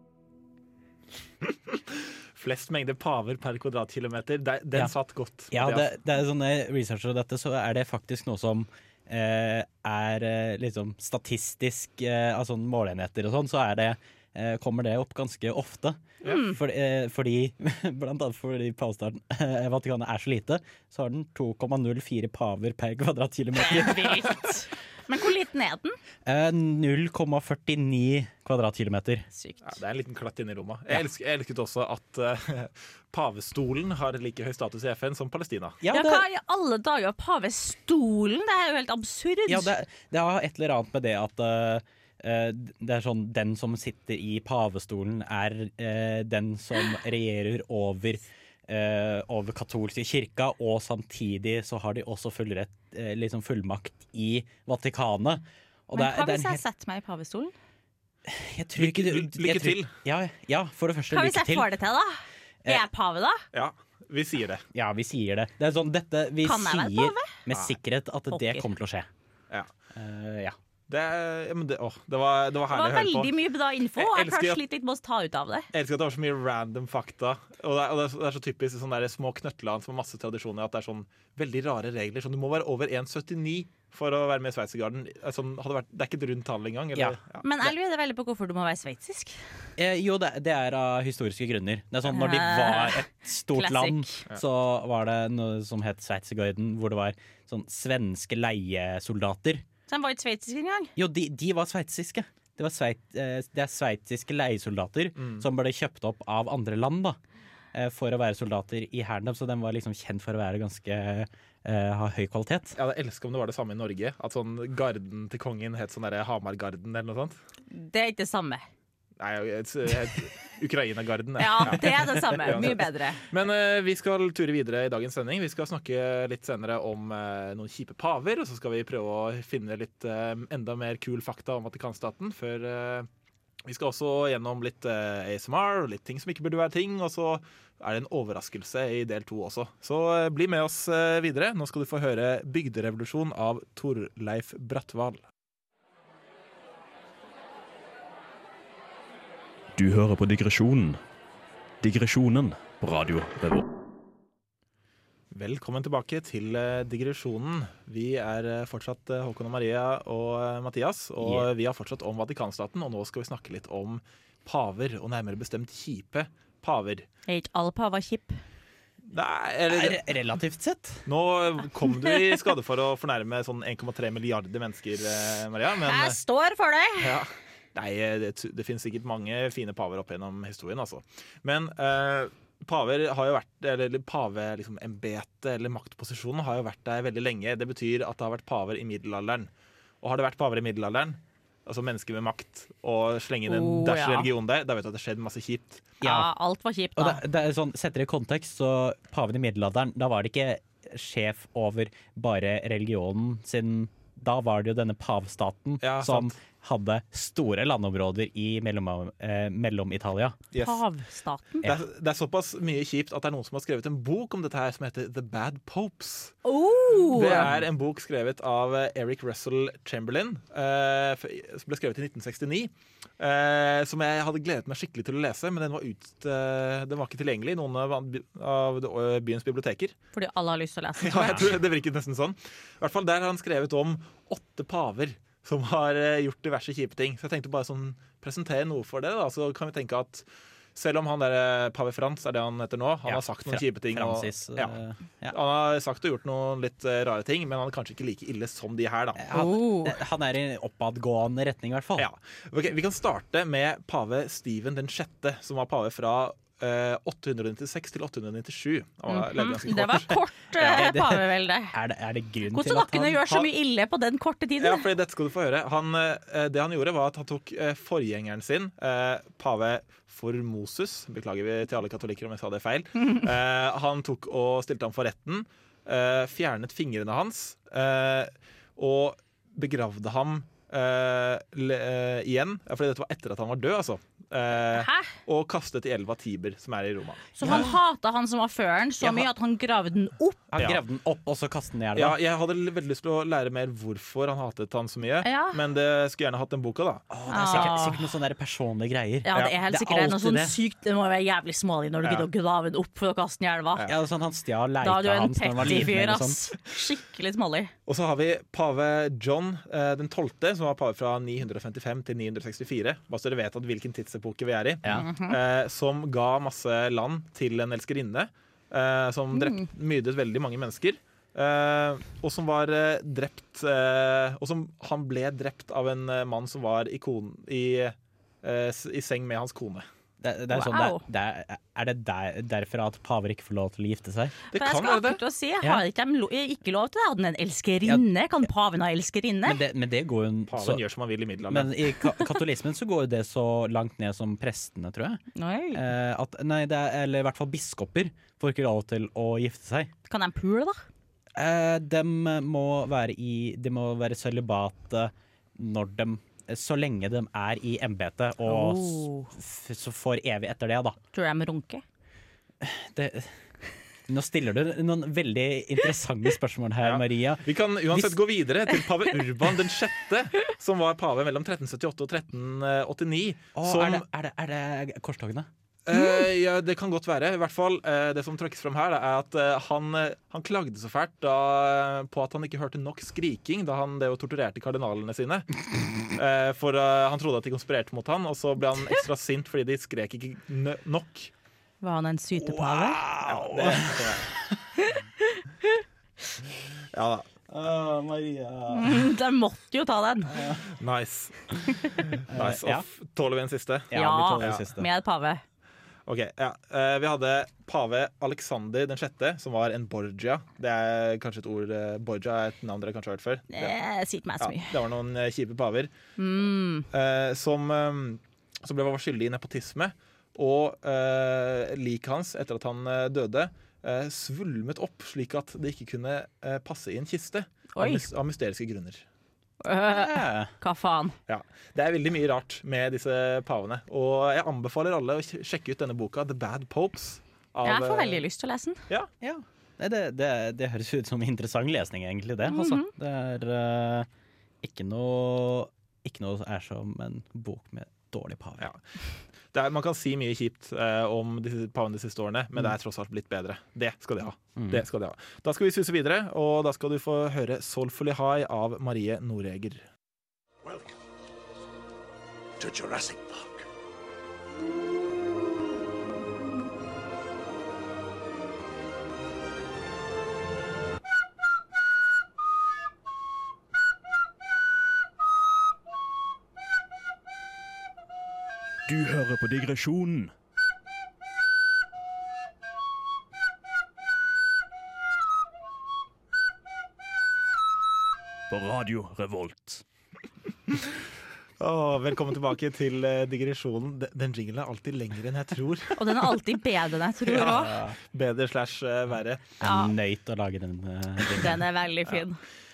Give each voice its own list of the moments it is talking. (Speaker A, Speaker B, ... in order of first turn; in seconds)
Speaker A: 1.7-5.9, 29.6-35.8, 58.8-59.9, 63.5-64.6, 70.9-73.3, 74.0-74.6, 75.7-87.5, 105.2-105.4, 112.8-117.3, 119.2-133.1, 133.6-145.2, 155.3-167.1, 169.1-170.0, 171.1-176.2, 177.0-189.5, 190.0-195.9, 205.8-206.3, 210.5-210.8, 211.6-216.3, 217.1-229.9, 231.0-244.8, 245.3-249.2, 252.0-260.9, 264.6-287.7, 289.0-289.2, 290.5-290.8, 291.9-297.7, 302.0-302.3, 307.9-329.9, 334.5-335.2, 340.5-341.7, 366.8-374.0, 375.9-391.3, 393.2-394.3, 396.9-397.3, 400.8-401.4, 402.1-404.6, 406.1-413.7, 414.4-415.9, 416.9-429.0, 431.3-438.2, 449.5-459.8, 491.6-496.3, 497.2-499.6
Speaker B: 5.5-24.4, 26.2-29.3, 35.8-36.2, 39.5-56.6, 58.3-61.7, 64.7-69.1, 69.9-70.5, 86.9-87.7, 89.8-99.6, 101.0-107.2, 107.7-112.8, 161.2-161.5, 169.7-171.1, 196.0-196.3, 197.0-210.4, 243.1-245.3, 249.2-252.1, 260.7-263.5, 287.4-287.7, 290.6-292.2, 297.1-300.6, 303.9-306.4, 330.2-334.3, 339.4-340.8, 341.5-345.2, 345.7-349.9, 351.4-361.0, 362.6-363.4, 364.1-368.1, 373.6-375.5, 392.4-394.6, 397.5-399.0, 400.3-400.6, 402.3-402.8, 403.9-404.9, 429.9-430.5, 439.2-444.1, 444.6-448.7, 454.6-454.8, 497.3-497.9, 499.6-501.6
Speaker C: 16.2-16.6, 23.5-26.0, 29.3-29.8, 35.9-39.7, 55.9-57.5, 61.1-63.4, 66.4-67.4, 68.3-68.7, 72.7-75.7, 87.4-89.4, 92.0-94.2, 99.9-100.9, 117.7-118.7, 121.4-123.2, 167.3-168.4, 172.1-172.3, 175.8-177.2, 193.4-194.3, 196.0-197.2, 210.6-211.7, 216.4-217.5, 230.1-231.6, 249.3-250.0, 259.1-261.7, 262.5-264.9, 284.7-285.1, 287.4-290.4, 295.2-295.6, 297.3-298.1, 299.2-303.9, 304.8-307.7, 314.9-315.4, 319.3-319.6, 330.5-331.0, 334.5-339.6, 345.3-345.9, 350.1-350.8, 358.4-359.3, 361.1-361.8, 375.9-376.2, 391.8-393.0, 394.8-395.8, 398.7-400.4, 403.9-405.4, 413.5-414.8, 416.2-416.9, 427.8-428.1, 429.6-431.2, 437.6-438.8, 442.5-442.9, 496.0-497.8, 499.6-499.9, 501.3-502.4
Speaker D: 149.7-151.0, 151.8-153.6, 478.9-480.3, 488.5-489.8